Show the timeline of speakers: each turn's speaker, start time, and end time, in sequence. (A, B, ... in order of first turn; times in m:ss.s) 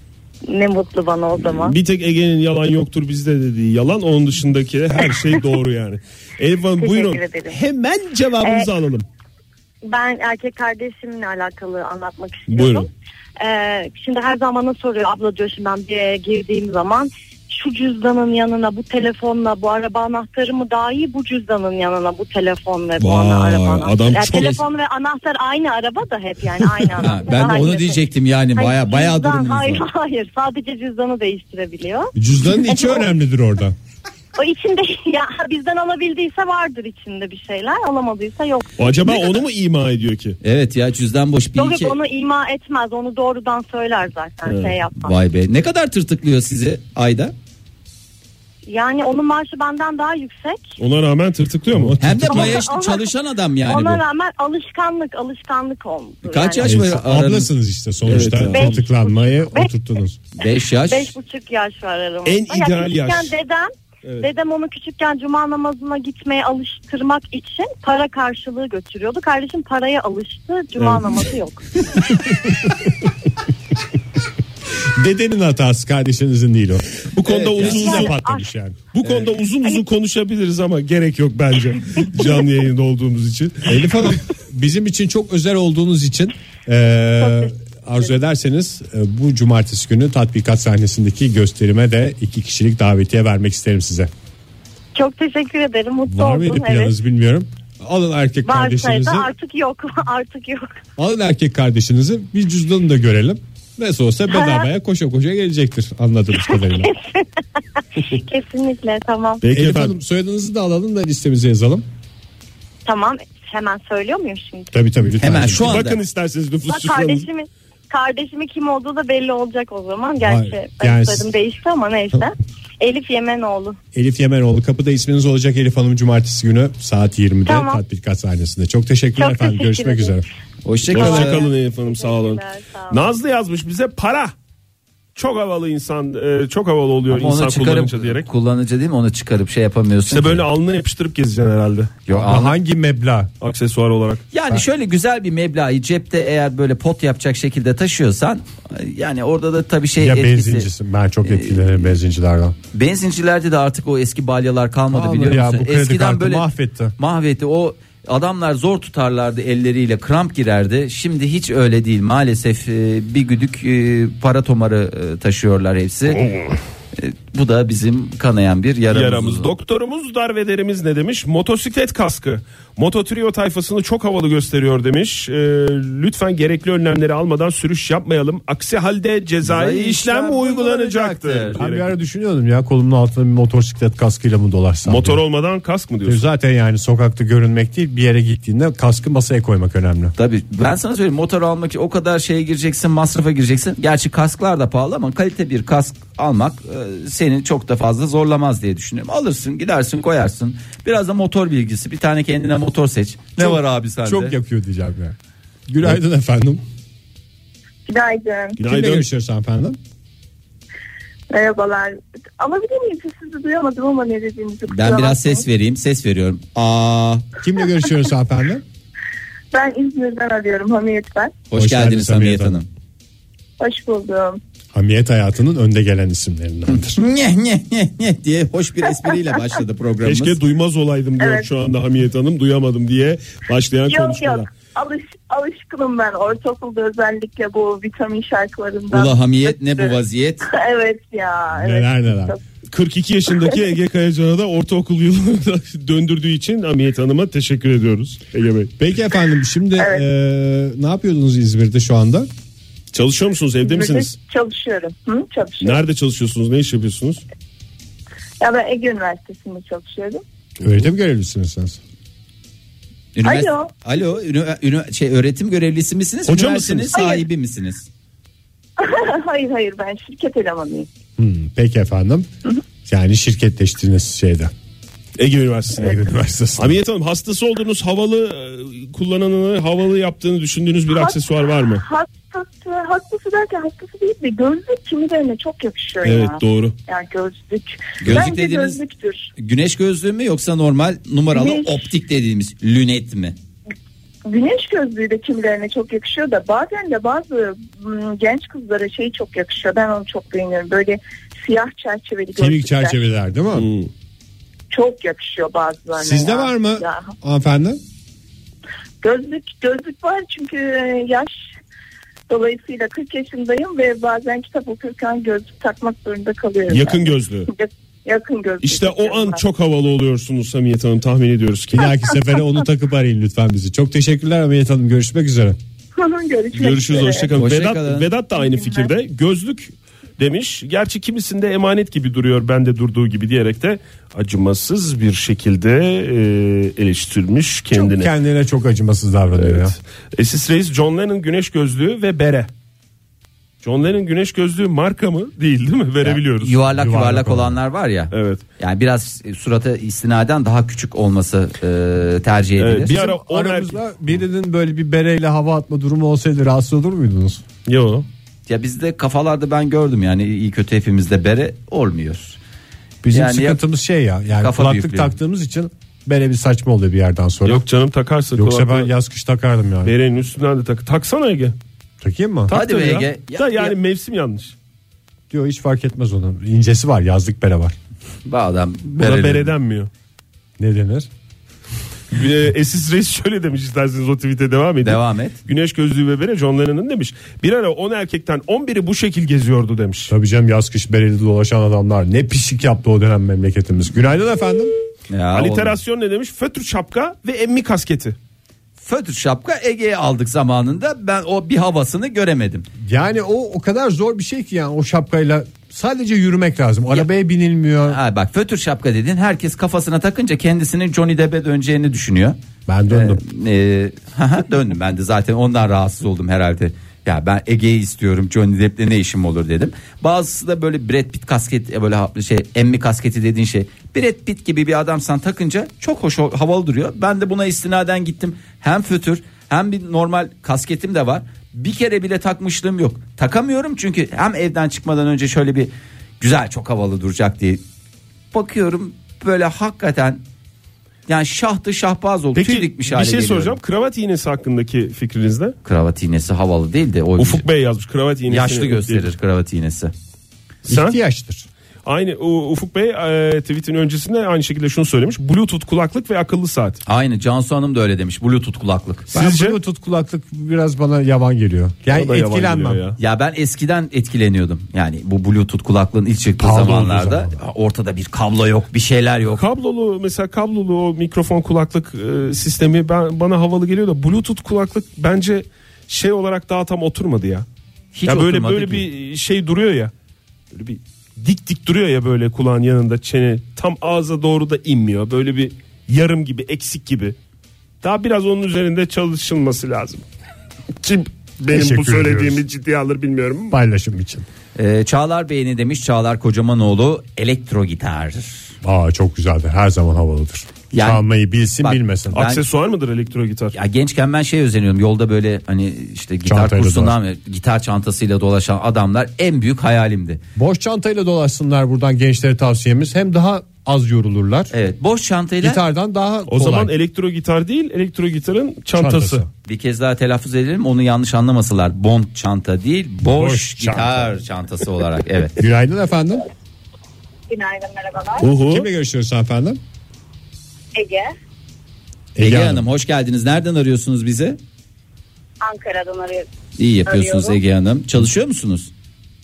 0:00.5-0:01.8 A
0:01.4-0:09.0 B
0:06.8-0:07.6 A
0:08.4-0:08.7 A
0:09.9-0:12.9 A
0:12.5-0:12.9 B
0:13.4-0:28.0 A
0:23.0-0:24.6 B
0:27.0-0:29.8 C
0:28.5-0:32.1 A
0:32.2-0:33.7 D
0:32.7-0:33.1 A
0:34.4-0:39.3 A
0:38.8-0:40.4 B
0:40.4-0:41.9 C
0:41.6-0:45.1 A
0:44.4-0:44.7 B
0:45.0-0:47.3 C
0:48.7-0:50.8 A
0:50.8-0:52.4 B
0:51.7-0:52.6 D
0:52.0-0:54.0 C
0:52.3-0:56.8 A
0:56.2-0:57.5 C
0:56.6-1:00.2 D
0:58.0-0:58.9 B
0:58.5-0:59.7 A
1:00.4-1:01.1 C
1:00.8-1:11.6 A
1:02.2-1:03.3 B
1:04.0-1:04.3 B
1:10.8-1:11.3 B
1:14.9-1:17.0 D
1:17.1-1:18.1 B
1:17.3-1:17.8 C
1:17.5-1:19.3 D
1:17.6-1:18.5 A
1:18.9-1:23.8 B
1:23.7-1:34.1 D
1:27.2-1:28.1 A
1:34.9-1:36.9 A
1:36.0-1:39.3 D
1:38.4-1:40.8 A
1:41.0-1:46.9 D
1:44.3-1:44.6 A
1:46.5-1:47.2 A
1:48.0-1:49.4 A
1:49.4-1:50.0 B
1:49.5-1:51.8 D
1:52.8-1:54.7 A
1:54.7-1:55.8 D
1:55.2-1:56.0 C
1:55.5-1:57.3 B
1:56.6-2:03.8 A
2:00.2-2:01.2 D
2:03.9-2:10.2 D
2:07.4-2:07.8 A
2:09.2-2:10.2 A
2:10.6-2:11.4 C
2:10.9-2:13.0 A
2:10.9-2:14.3 B
2:15.1-2:18.2 B
2:17.1-2:20.4 C
2:20.1-2:21.9 B
2:22.1-2:22.5 C
2:22.1-2:23.3 D
2:23.4-2:24.2 B
2:24.3-2:30.7 C
2:30.0-2:32.6 D
2:31.2-2:31.9 C
2:32.7-2:46.2 C
2:34.9-2:36.9 D
2:46.1-2:46.6 B
2:46.9-2:49.5 C
2:48.9-3:01.9 B
2:59.4-3:01.6 C
3:01.6-3:05.2 D
3:04.8-3:06.2 B
3:06.0-3:10.1 D
3:10.2-3:24.4 C
3:23.4-3:25.2 D
3:25.7-3:26.6 D
3:27.9-3:28.6 E
3:28.6-3:29.0 B
3:28.7-3:29.8 D
3:31.3-3:35.4 E
3:34.7-3:37.2 C
3:37.4-3:38.6 D
3:39.5-3:41.4 E
3:41.5-3:42.7 C
3:41.5-3:42.6 D
3:43.6-3:44.4 E
3:44.7-3:47.0 D
3:46.7-3:50.4 C
3:50.0-3:54.5 B
3:51.2-3:51.5 E
3:53.9-4:00.0 E
3:58.9-4:00.5 C
4:00.5-4:02.4 E
4:01.5-4:02.4 D
4:02.7-4:08.8 B
4:08.8-4:12.3 D
4:09.8-4:10.0 E
4:12.9-4:14.1 B
4:13.6-4:15.8 E
4:15.6-4:17.2 B
4:18.4-4:20.2 E
4:20.6-4:21.8 D
4:23.1-4:27.9 C
4:23.2-4:23.7 E
4:26.3-4:26.9 B
4:26.9-4:27.2 E
4:28.8-4:30.9 E
4:31.2-4:32.3 D
4:32.8-4:34.5 D
4:35.2-4:35.9 B
4:35.7-4:36.8 D
4:36.6-4:41.8 B
4:40.9-4:41.2 E
4:41.8-4:49.3 E
4:46.0-4:46.7 B
4:48.0-4:48.8 C
4:49.4-4:53.3 C
4:51.3-4:51.9 E
4:54.2-5:03.0 E
5:02.4-5:03.7 D
5:03.5-5:03.9 B
5:04.7-5:07.1 E
5:06.0-5:07.8 D
5:09.0-5:11.5 E
5:12.3-5:19.4 E
5:16.7-5:17.5 B
5:18.6-5:22.0 B
5:21.7-5:25.6 D
5:25.9-5:27.3 E
5:26.5-5:38.1 B
5:27.3-5:28.1 C
5:28.4-5:28.9 E
5:37.7-5:39.8 D
5:39.3-5:42.5 B
5:43.6-5:46.6 B
5:46.0-5:53.0 C
5:46.7-5:47.6 D
5:48.1-5:48.4 B
5:52.6-5:53.8 B
5:52.8-5:57.4 D
5:57.6-5:58.0 B
5:58.5-6:02.4 C
6:03.0-6:07.6 D
6:03.1-6:03.6 C
6:04.4-6:05.1 C
6:07.4-6:08.9 B
6:08.4-6:09.9 D
6:09.8-6:11.5 B
6:12.0-6:12.5 D
6:12.5-6:14.5 B
6:12.5-6:13.8 C
6:15.3-6:17.8 D
6:18.2-6:19.5 C
6:19.0-6:19.9 B
6:20.6-6:21.1 D
6:22.1-6:30.1 B
6:24.8-6:25.4 C
6:30.1-6:34.7 D
6:35.1-6:35.8 C
6:35.3-6:38.2 B
6:38.8-6:42.6 C
6:42.8-6:48.0 D
6:47.9-6:52.4 C
6:52.7-6:53.2 D
6:52.9-7:17.6 C
7:18.3-7:20.2 C
7:21.1-7:23.6 C
7:22.4-7:25.6 B
7:25.6-7:27.4 C
7:27.2-7:29.1 B
7:28.3-7:29.9 C
7:30.7-7:31.0 B
7:30.7-7:31.5 D
7:31.8-7:36.8 B
7:36.8-7:39.1 C
7:39.1-7:42.8 D
7:39.1-7:39.6 B
7:41.9-7:43.0 B
7:43.0-7:49.4 C
7:46.4-7:47.3 D
7:49.3-7:57.4 B
7:57.9-7:58.8 C
7:58.1-7:59.9 B
8:00.5-8:07.2 B
8:07.8-8:10.0 B
8:10.8-8:13.6 B
8:11.5-8:12.4 D
8:13.5-8:14.2 D
8:14.6-8:18.5 C
8:18.6-8:22.2 D
8:20.7-8:21.0 C
8:21.6-8:22.4 C
8:22.1-8:23.5 B
8:23.5-8:30.2 C
8:26.2-8:27.0 D
8:30.4-8:34.5 D
8:34.5-8:35.6 C
8:35.4-8:36.7 D
8:36.3-8:39.2 B
8:38.8-8:39.3 D
8:39.4-8:45.4 C
8:43.0-8:44.1 D
8:45.4-8:46.2 D
8:47.3-8:48.3 F
8:48.2-8:48.7 B
8:48.4-8:49.6 D
8:50.7-8:51.1 F
8:52.1-8:52.6 D
8:52.2-8:54.4 C
8:55.4-8:56.3 F
8:56.6-8:58.7 C
8:56.8-8:57.4 F